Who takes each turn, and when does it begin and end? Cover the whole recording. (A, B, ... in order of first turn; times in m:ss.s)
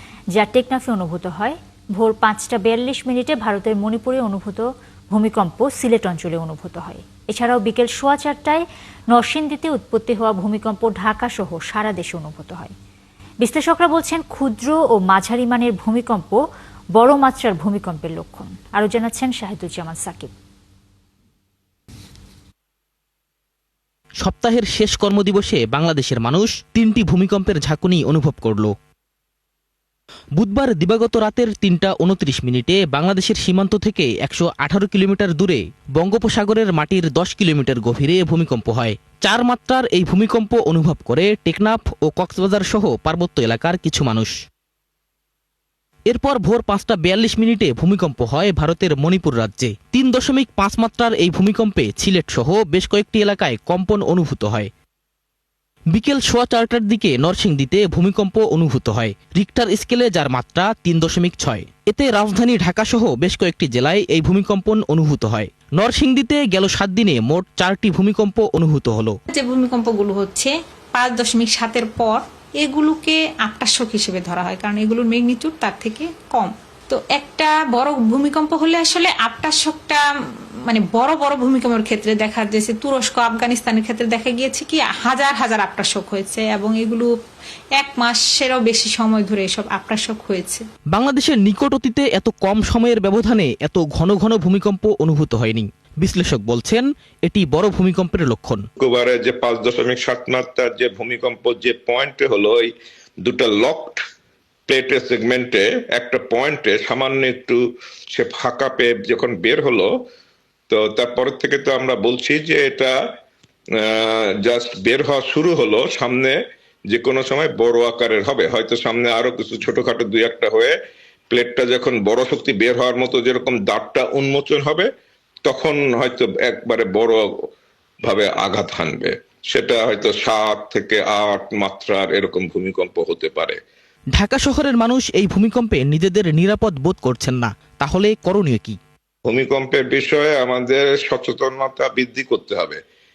0:00.3-0:12.7 A
0:13.4-0:16.4 A
0:17.0-0:20.3 A
0:24.2-0:28.7 B
0:30.4-0:44.3 B
0:46.1-0:54.7 B
0:55.9-1:09.2 B
1:09.3-1:20.0 C
1:20.7-1:27.1 C
1:27.8-1:30.6 C
1:30.9-1:38.6 B
1:38.8-1:42.7 D
1:43.2-1:44.0 D
1:44.7-1:47.6 D
1:48.1-1:49.9 D
1:50.7-1:52.9 D
1:53.8-1:56.4 D
1:56.9-2:00.8 D
2:01.3-2:04.9 D
2:05.4-2:07.2 D
2:08.0-2:13.6 D
2:14.2-2:18.8 B
2:19.2-2:22.8 D